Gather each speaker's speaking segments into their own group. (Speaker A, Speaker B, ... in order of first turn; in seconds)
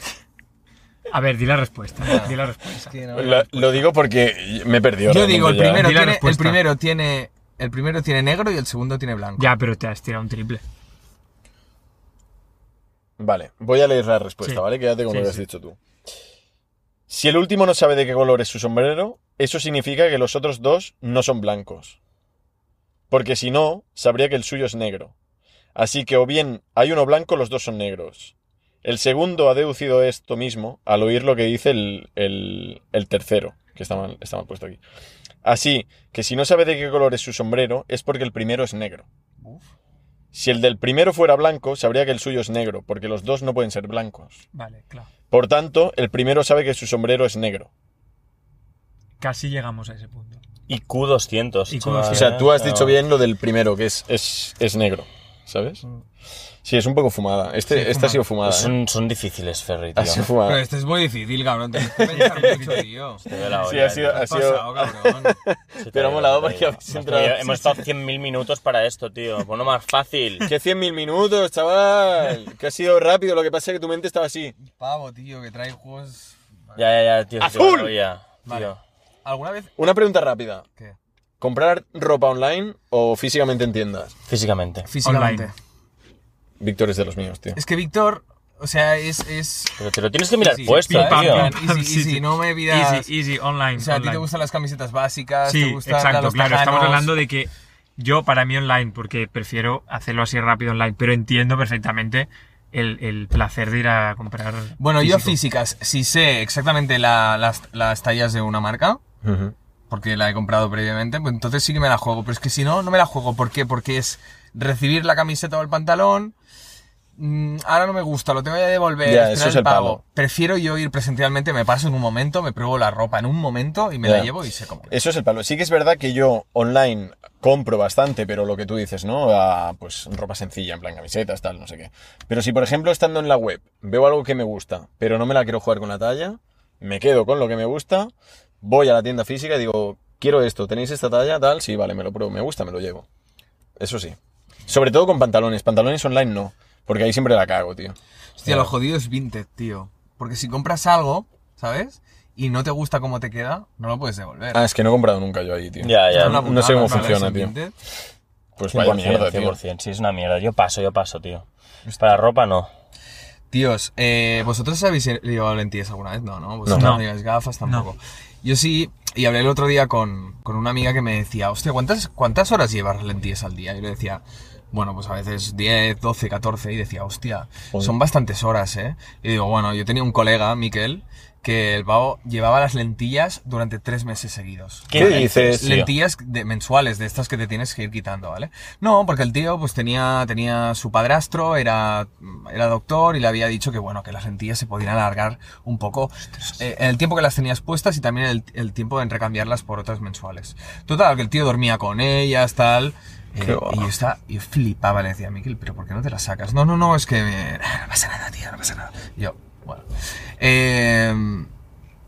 Speaker A: 1.1-3.0, 5.8-6.7, 9.4-10.6, 14.4-15.4, 44.5-45.1, 49.2-50.4, 51.7-52.4, 57.7-58.2, 62.1-62.7, 85.0-85.5, 90.7-94.3, 95.5-105.4, 156.9-157.2, 166.7-167.1
Speaker B: 2.0-2.4, 2.9-3.9, 5.1-9.5, 60.4-63.3, 64.0-65.4, 74.6-76.8, 78.5-79.8, 84.8-85.5, 87.5-89.8, 90.4-93.1, 93.8-97.1, 104.8-109.0, 109.9-116.3, 117.2-125.0, 148.4-154.6, 156.1-157.7, 163.5-211.5
Speaker C: 3.1-6.0, 13.2-15.8, 17.1-22.0, 23.1-25.1, 25.8-34.8, 35.4-39.1, 40.3-44.4, 45.3-47.7, 52.1-55.8, 56.6-58.8, 60.0-60.6, 61.8-62.8, 63.4-67.8, 70.4-74.5, 77.4-78.0, 79.8-80.7, 81.4-84.1, 86.6-87.6, 109.2-109.5, 119.0-120.0, 124.0-124.3, 124.9-143.1, 143.8-148.7, 154.5-157.5, 158.6-159.6, 166.7-167.0, 184.9-185.7, 203.4-203.9
Speaker D: 50.7-53.0, 58.4-60.3, 63.2-64.3, 65.8-70.5, 76.8-78.8, 84.3-84.9, 89.8-91.6, 155.8-156.6, 158.7-161.4, 162.0-162.7, 184.9-185.9